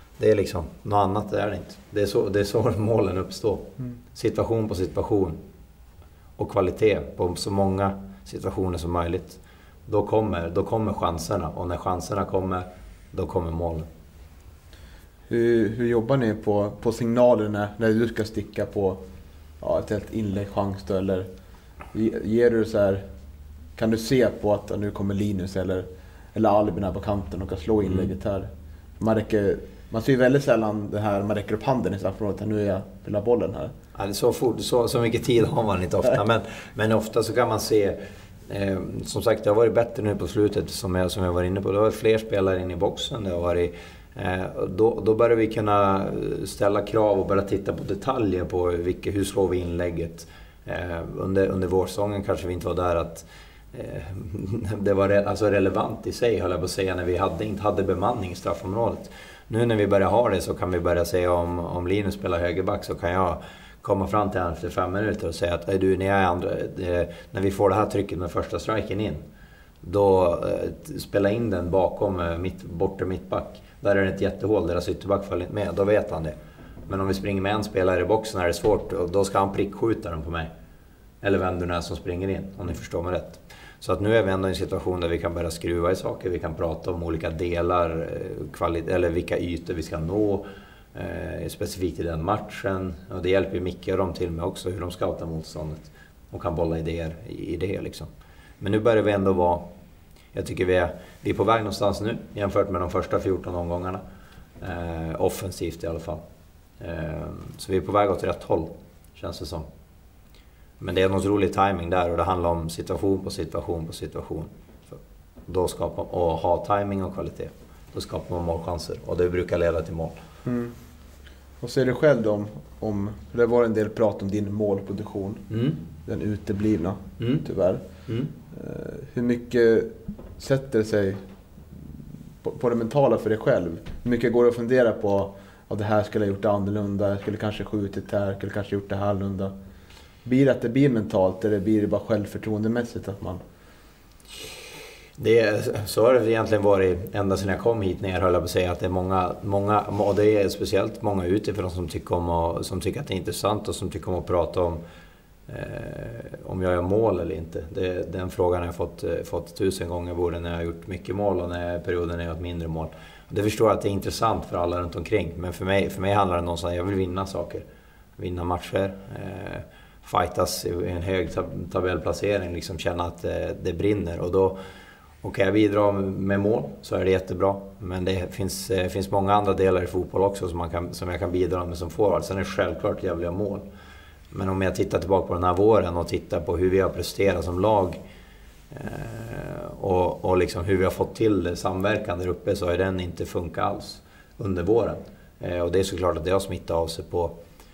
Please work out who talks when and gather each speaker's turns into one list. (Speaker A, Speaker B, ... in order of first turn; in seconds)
Speaker A: 0.2-5.4, 6.4-13.9, 27.8-28.1, 34.0-69.2, 69.8-76.4, 76.9-80.5, 81.2-98.1, 98.6-99.7, 100.3-104.0, 104.6-106.2, 106.8-109.7, 110.8-120.2, 125.5-125.8, 127.2-127.5, 128.1-128.3, 145.2-154.8, 155.5-167.7, 168.2-174.6, 175.2-183.7, 184.3-188.0, 188.7-197.4
Speaker B: 15.3-19.0, 19.6-21.3, 21.9-23.0, 23.8-33.7, 120.5-120.8, 121.6-125.5, 126.0-131.2, 132.4-139.5, 140.2-143.4